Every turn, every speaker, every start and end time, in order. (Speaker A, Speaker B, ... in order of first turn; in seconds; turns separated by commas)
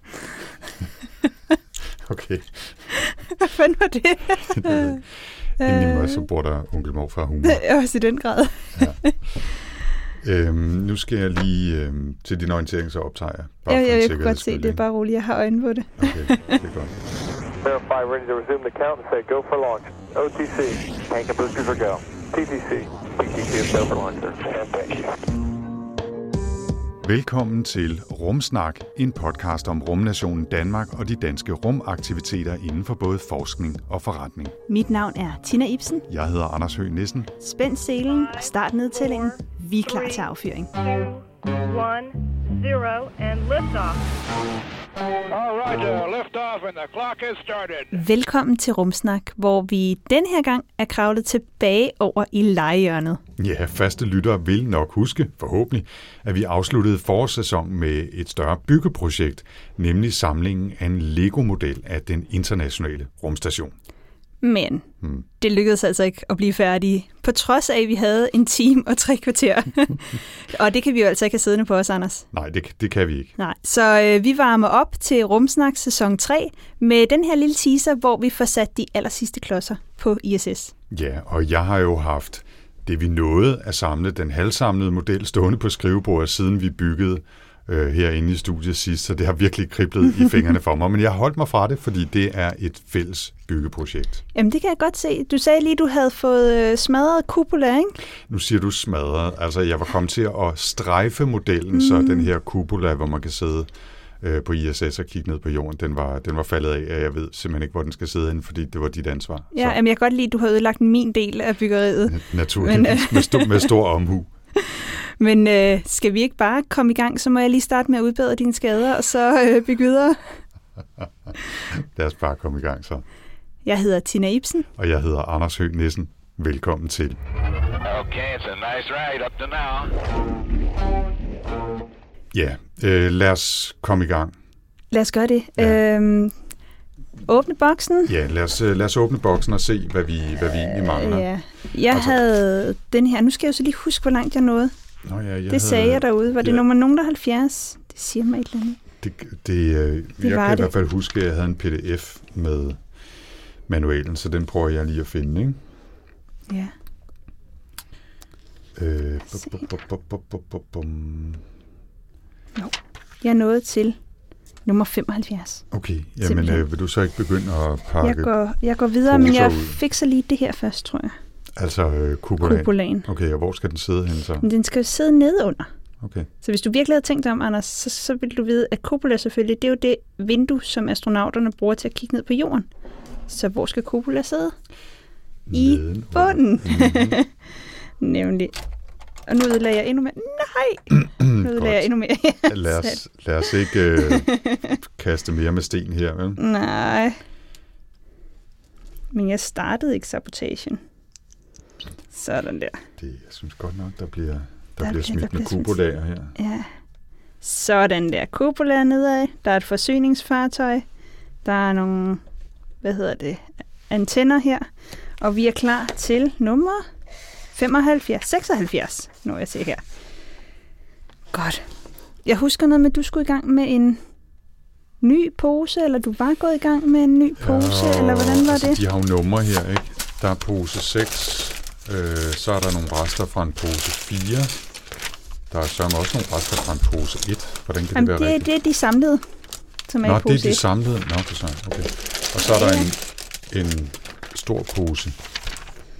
Speaker A: 2.0-2.9, Speaker B: 3.1-5.0, Speaker A: 4.5-5.0, Speaker A: 5.6-7.6, Speaker B: 5.6-6.2, Speaker B: 7.4-9.1, Speaker A: 8.7-9.0, Speaker A: 10.2-14.8, Speaker B: 13.7-16.4, Speaker A: 16.0-17.0, Speaker C: 17.6-25.1, Speaker A: 27.0-34.6, Speaker B: 34.7-36.0, Speaker A: 36.1-37.3, Speaker B: 37.4-40.7, Speaker D: 38.1-44.0, Speaker E: 45.3-48.0, Speaker B: 47.9-53.2, Speaker A: 53.4-63.7, Speaker B: 64.4-64.9, Speaker A: 65.0-65.3, Speaker B: 65.4-72.3, Speaker A: 72.3-73.3, Speaker B: 73.4-80.7, Speaker A: 80.9-94.2, Speaker B: 94.3-98.0, Speaker A: 98.3-103.7, Speaker B: 101.7-102.3, Speaker A: 104.2-109.8, Speaker B: 109.5-113.7, Speaker A: 112.1-114.3, Speaker B: 114.5-120.4, Speaker A: 121.5-123.0, Speaker B: 123.6-124.7, Speaker A: 124.8-127.2, Speaker E: 127.8-129.9, Speaker A: 132.3-134.3, Speaker B: 134.9-136.3, Speaker B: 137.3-138.1, Speaker A: 138.0-141.3, Speaker B: 140.8-144.7, Speaker A: 141.9-142.2, Speaker A: 145.0-146.7, Speaker B: 145.5-148.8, Speaker A: 149.0-152.8, Speaker B: 150.2-150.7, Speaker A: 153.7-155.6, Speaker B: 156.5-156.7, Speaker A: 158.8-161.4, Speaker B: 162.6-164.0, Speaker B: 164.6-165.6, Speaker A: 165.7-168.3, Speaker B: 166.2-166.6, Speaker B: 168.0-171.1, Speaker A: 169.0-169.8, Speaker A: 171.6-174.5, Speaker B: 172.4-173.1, Speaker B: 174.4-175.7, Speaker A: 176.0-176.3, Speaker B: 176.4-182.7, Speaker B: 183.3-184.5, Speaker A: 185.5-187.2, Speaker B: 185.5-187.3, Speaker B: 188.0-188.6, Speaker B: 189.3-194.8, Speaker A: 190.9-191.9, Speaker A: 192.4-196.4, Speaker B: 196.4-197.2, Speaker B: 199.1-200.8, Speaker B: 202.1-202.8, Speaker A: 203.0-206.3, Speaker B: 204.8-205.8, Speaker B: 206.3-206.7, Speaker B: 207.4-210.8, Speaker B: 211.4-212.2, Speaker B: 212.8-216.8, Speaker B: 217.5-219.8, Speaker B: 221.3-221.7, Speaker B: 222.2-224.0, Speaker B: 225.0-228.8, Speaker A: 227.4-234.6, Speaker A: 235.5-238.5, Speaker B: 237.9-239.2, Speaker B: 239.9-240.6, Speaker A: 240.0-245.2, Speaker B: 242.4-242.9